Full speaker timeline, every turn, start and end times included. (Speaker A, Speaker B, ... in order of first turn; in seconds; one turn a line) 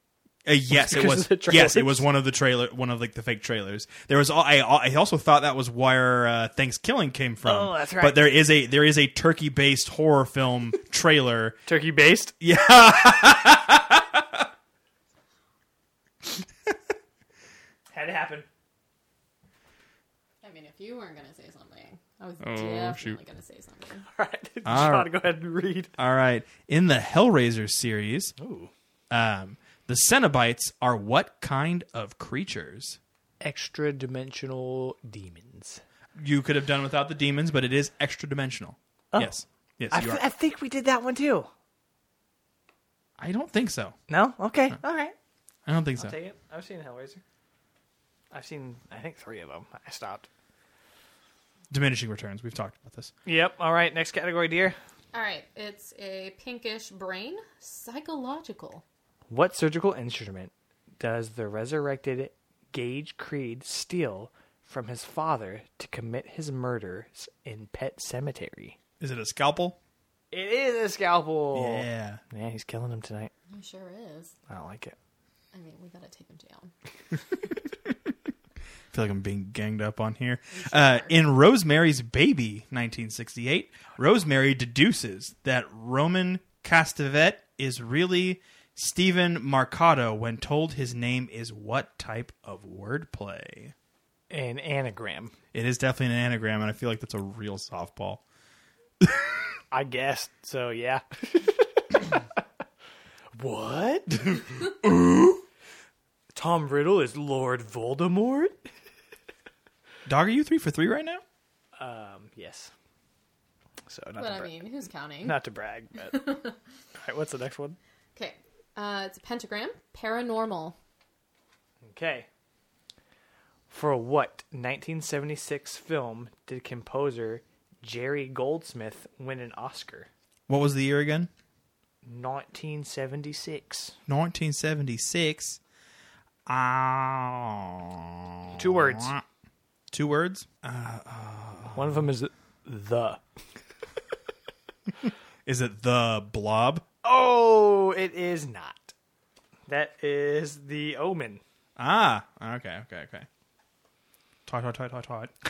Speaker A: 0.5-11.6
Speaker B: 0.7-2.1
Speaker B: 7.4-8.2
Speaker B: 11.7-12.3
Speaker A: 12.4-14.4
Speaker B: 17.9-18.5
Speaker C: 20.4-24.1
Speaker A: 22.4-23.2
Speaker B: 24.1-25.9
Speaker A: 24.6-25.1
Speaker A: 26.0-28.4
Speaker B: 28.4-28.7
Speaker A: 29.1-33.0
Speaker B: 33.4-35.8
Speaker A: 36.2-40.2
Speaker B: 39.1-39.4
Speaker B: 39.9-41.5
Speaker A: 43.2-44.0
Speaker B: 44.1-45.1
Speaker A: 45.7-46.2
Speaker B: 46.0-47.2
Speaker B: 48.3-50.3
Speaker A: 51.7-53.1
Speaker B: 53.3-54.8
Speaker C: 55.1-58.8
Speaker B: 59.3-68.8
Speaker A: 69.0-69.8
Speaker B: 70.3-73.3
Speaker A: 71.5-72.2
Speaker C: 73.5-74.3
Speaker B: 74.5-75.0
Speaker C: 75.5-76.7
Speaker A: 78.9-93.7
Speaker C: 80.5-81.2
Speaker B: 94.3-95.4
Speaker A: 95.5-98.2
Speaker B: 99.7-102.3
Speaker B: 103.4-104.7
Speaker A: 104.8-105.4
Speaker B: 106.3-108.6
Speaker A: 110.1-111.2
Speaker B: 111.8-112.7
Speaker B: 113.9-114.5
Speaker C: 114.2-115.4
Speaker B: 115.2-116.4
Speaker C: 116.1-116.6
Speaker B: 117.0-117.8
Speaker C: 118.2-120.8
Speaker B: 121.8-122.3
Speaker B: 123.7-130.1
Speaker A: 130.5-131.3
Speaker B: 132.0-134.0
Speaker A: 134.1-135.6
Speaker A: 136.5-139.2
Speaker B: 138.5-139.2
Speaker A: 139.9-142.0
Speaker B: 141.7-143.2
Speaker A: 145.5-146.8
Speaker B: 147.0-148.9
Speaker B: 149.7-151.4
Speaker A: 151.8-153.3
Speaker A: 154.5-155.3